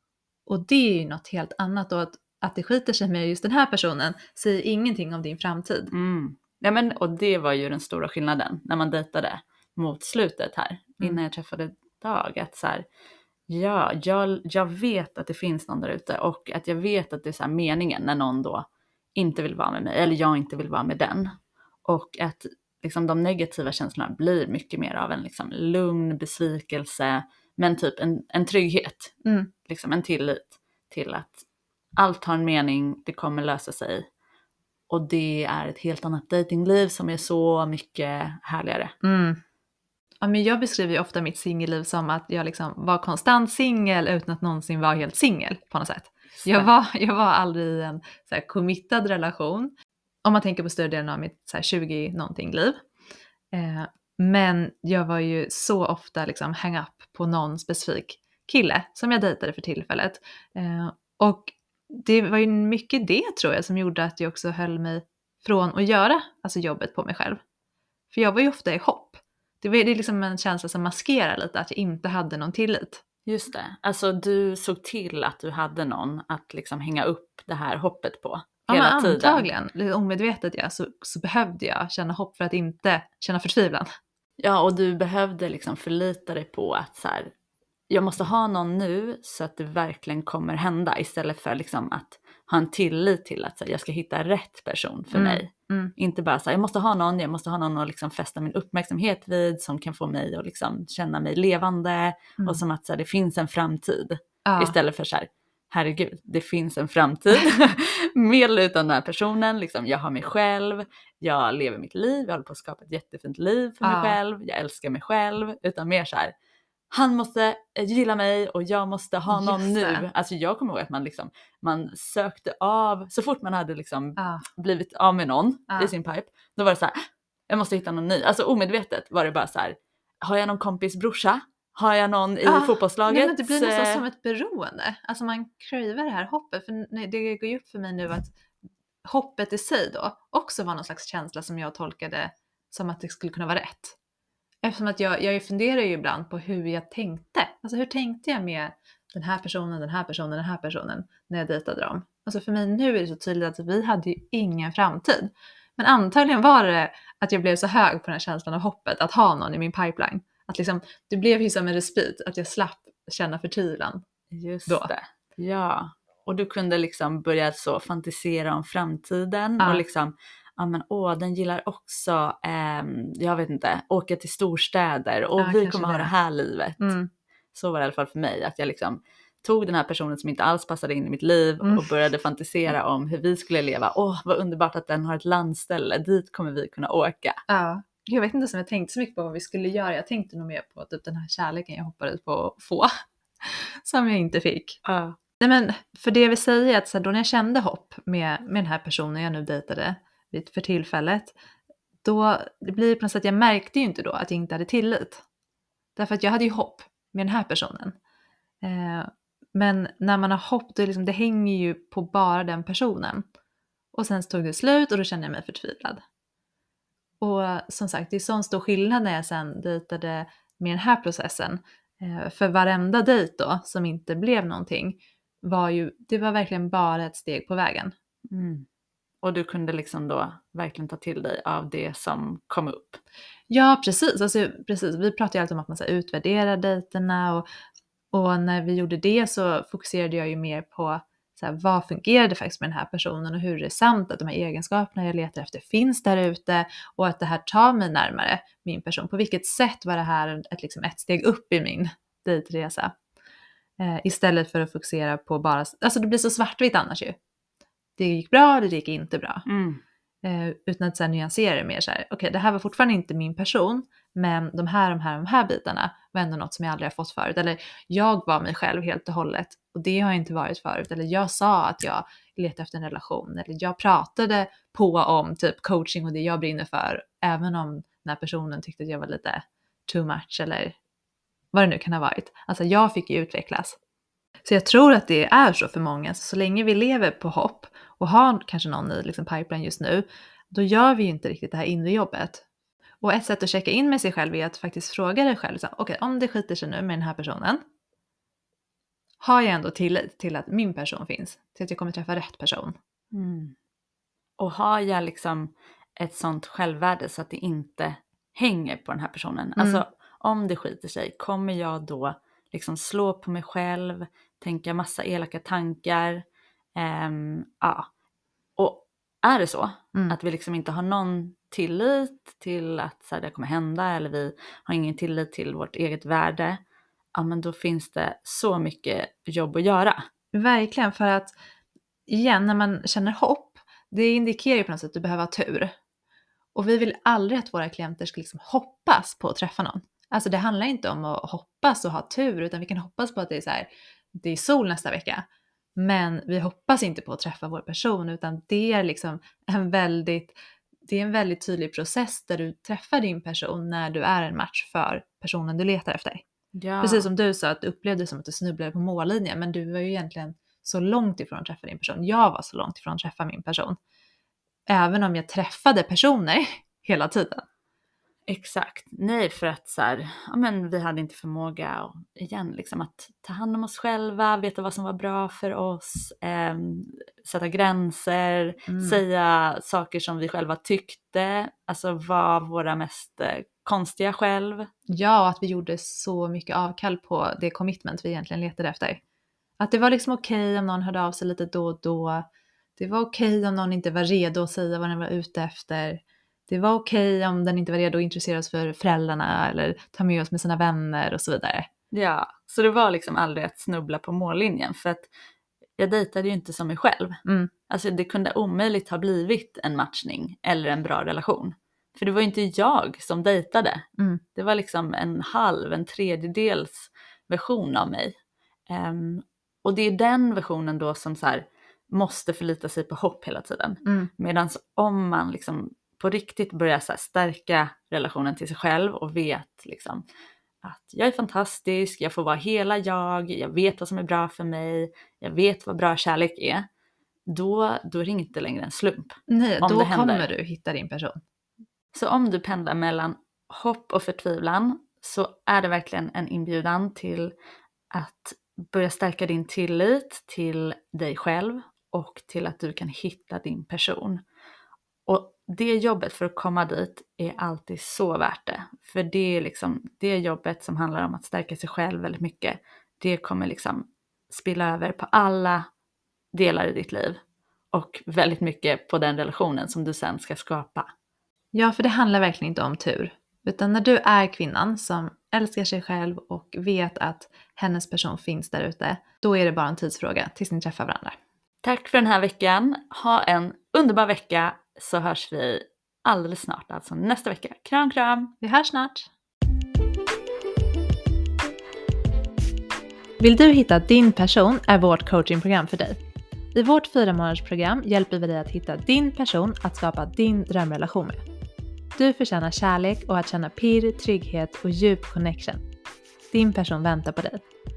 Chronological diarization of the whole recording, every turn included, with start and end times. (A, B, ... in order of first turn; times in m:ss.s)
0:00.5-0:05.9 A
0:05.9-0:12.8 B
0:13.5-0:21.3 B
0:21.9-0:29.1 B
0:29.2-0:29.5 A
0:29.7-0:31.4 B
0:32.0-0:34.0 B
0:34.9-0:39.0 B
0:39.0-0:39.4 A
0:40.2-0:49.7 A
0:46.4-0:46.7 B
0:50.2-0:52.8 A
0:53.5-1:07.4 A
1:08.1-1:13.0 A
1:13.3-1:19.5 B
1:18.7-1:23.9 A
1:24.4-1:27.3 B
1:27.9-1:56.3 B
1:35.1-1:35.9 A
1:44.4-1:44.8 A
1:53.8-1:54.2 A
1:56.9-2:06.9 B
1:59.3-2:00.1 A
2:04.2-2:04.4 A
2:07.5-2:14.0 B
2:12.4-2:18.3 A
2:19.0-2:24.0 A
2:24.6-2:44.0 A
2:44.3-2:57.0 B
2:49.6-2:49.8 A
2:55.4-2:56.1 A
2:56.8-2:57.1 A
2:57.5-3:07.4 B
3:01.6-3:01.9 A
3:07.5-3:12.9 A
3:13.4-3:14.8 A
3:14.8-3:15.2 B
3:15.4-3:21.4 A
3:22.0-3:25.2 A
3:26.0-3:28.0 A
3:28.6-3:33.2 A
3:33.9-3:36.0 A
3:37.2-3:47.9 A
3:48.3-3:48.7 B
3:49.2-3:53.0 B
3:53.5-3:57.5 A
3:58.1-4:12.9 A
4:13.8-4:17.2 A
4:18.0-4:19.5 A
4:19.5-4:19.8 B
4:20.2-4:40.8 A
4:41.5-4:43.8 A
4:44.4-4:52.4 A
4:53.0-4:57.6 A
4:59.2-5:02.8 A
5:03.1-5:03.5 B
5:04.4-5:16.2 B
5:16.8-5:17.8 B
5:18.6-5:26.6 B
5:27.2-5:30.0 B
5:30.3-5:31.4 A
5:32.1-5:35.7 A
5:36.6-5:45.2 A
5:45.8-5:50.4 A
5:50.9-5:56.2 A
5:56.6-5:57.1 B
5:56.8-6:03.8 A
6:04.7-6:07.5 A
6:08.3-6:24.7 B
6:18.7-6:19.0 A
6:24.9-6:29.0 A
6:29.6-6:32.2 A
6:32.8-6:41.7 A
6:41.9-6:45.1 B
6:45.8-6:47.2 B
6:47.2-6:47.5 A
6:47.7-6:53.8 B
6:54.0-6:54.2 A
6:54.4-6:58.1 B
6:58.7-7:10.0 B
7:03.8-7:04.1 A
7:10.6-7:16.6 B
7:17.3-7:20.3 B
7:19.3-7:21.2 A
7:21.9-7:27.3 B
7:27.9-7:34.2 B
7:35.1-7:45.6 B
7:46.3-7:47.2 B
7:47.7-7:50.9 B
7:51.5-8:01.2 A
8:01.6-8:08.3 B
8:08.4-8:09.1 A
8:13.2-8:16.0 A
8:16.5-8:21.2 A
8:22.0-8:25.6 A
8:26.3-8:27.4 A